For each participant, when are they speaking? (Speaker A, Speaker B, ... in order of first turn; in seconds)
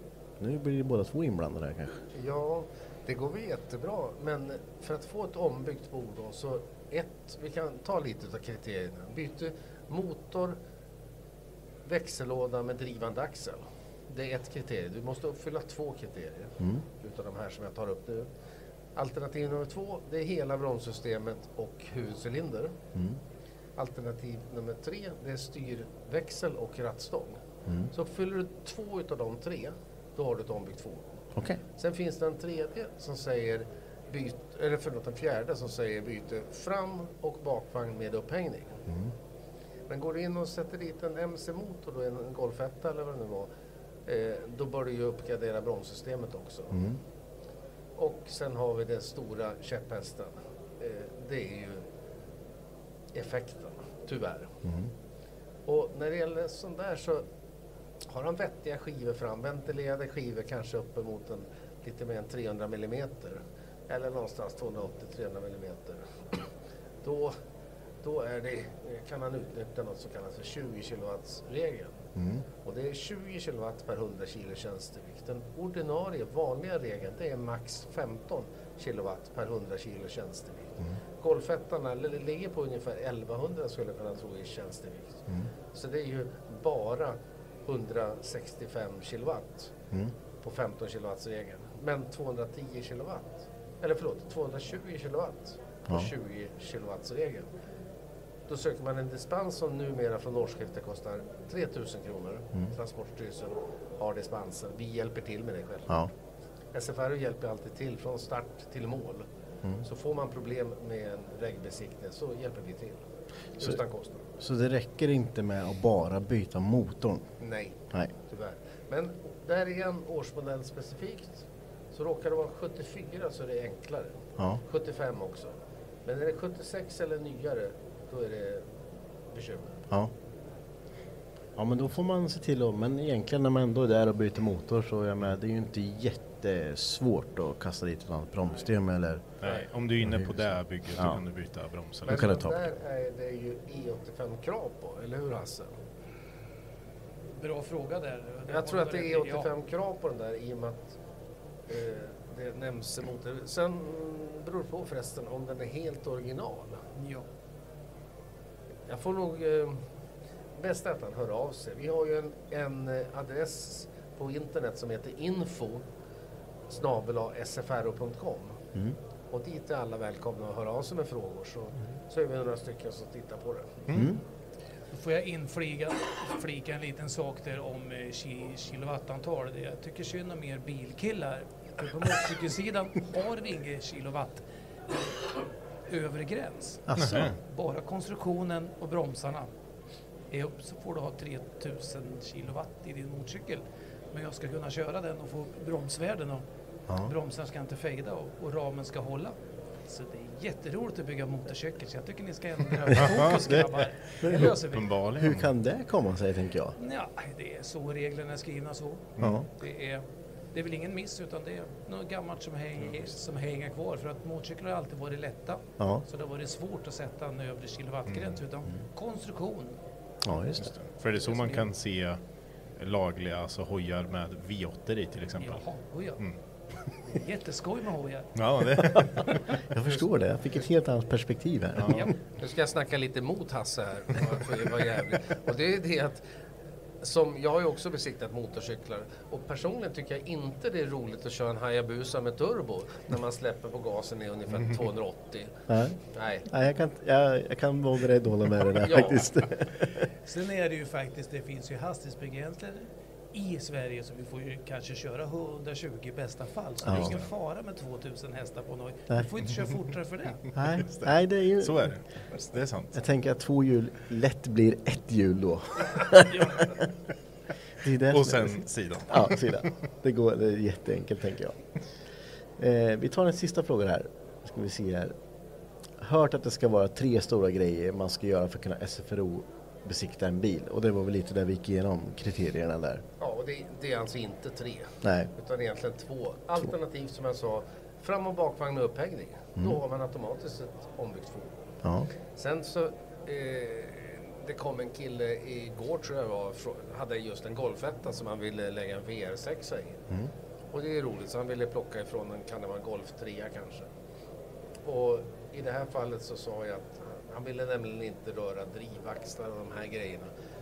Speaker A: 0.4-2.0, 38.9-39.1, 46.7-47.0, 54.6-54.9, 72.2-72.4, 114.4-117.3, 131.6-139.3, 140.0-141.2, 142.1-142.7, 173.9-174.2, 186.9-187.3, 204.2-204.5, 205.2-206.8, 209.2-209.5, 215.8-216.1, 220.2-220.7, 228.7-232.1, 245.7-250.1, 256.8-257.2, 260.5-261.9, 262.9-266.8, 267.8-271.6, 272.6-275.1, 276.0-283.0, 285.0-285.3, 291.8-292.1
Speaker B: 2.1-10.6, 11.8-18.3, 18.9-22.8, 23.8-27.4, 27.9-31.2, 31.7-38.8, 39.9-43.5, 44.0-46.8, 48.0-51.8, 53.1-54.5, 55.7-57.2, 58.1-66.5, 67.0-67.3, 68.0-72.0, 72.6-85.2, 85.7-89.7, 90.4-97.5, 98.5-105.9, 106.7-109.3, 109.8-113.0, 113.6-114.2, 117.4-125.5, 126.0-128.7, 129.3-129.8, 142.1-145.7, 148.5-150.9, 151.7-156.8, 158.9-159.8, 160.5-165.8, 166.7-168.6, 169.3-173.8, 232.4-236.2, 237.0-245.5, 246.1-246.4, 248.8-249.2, 283.2-291.7, 292.3-300.0, 300.7-303.9, 304.8-310.3
Speaker C: 139.4-142.3, 173.9-174.2, 187.0-187.3, 202.9-205.5, 218.1-218.4, 220.6-222.2, 222.8-225.6, 228.3-229.4, 231.8-232.1, 256.8-257.2, 260.8-263.0, 268.1-269.4
Speaker D: 147.4-149.5, 156.9-157.3, 174.9-184.4, 185.9-189.5, 190.3-196.4, 197.0-199.3, 199.9-204.9, 206.8-219.8, 221.2-221.7, 225.4-226.2, 227.0-228.3, 250.2-260.4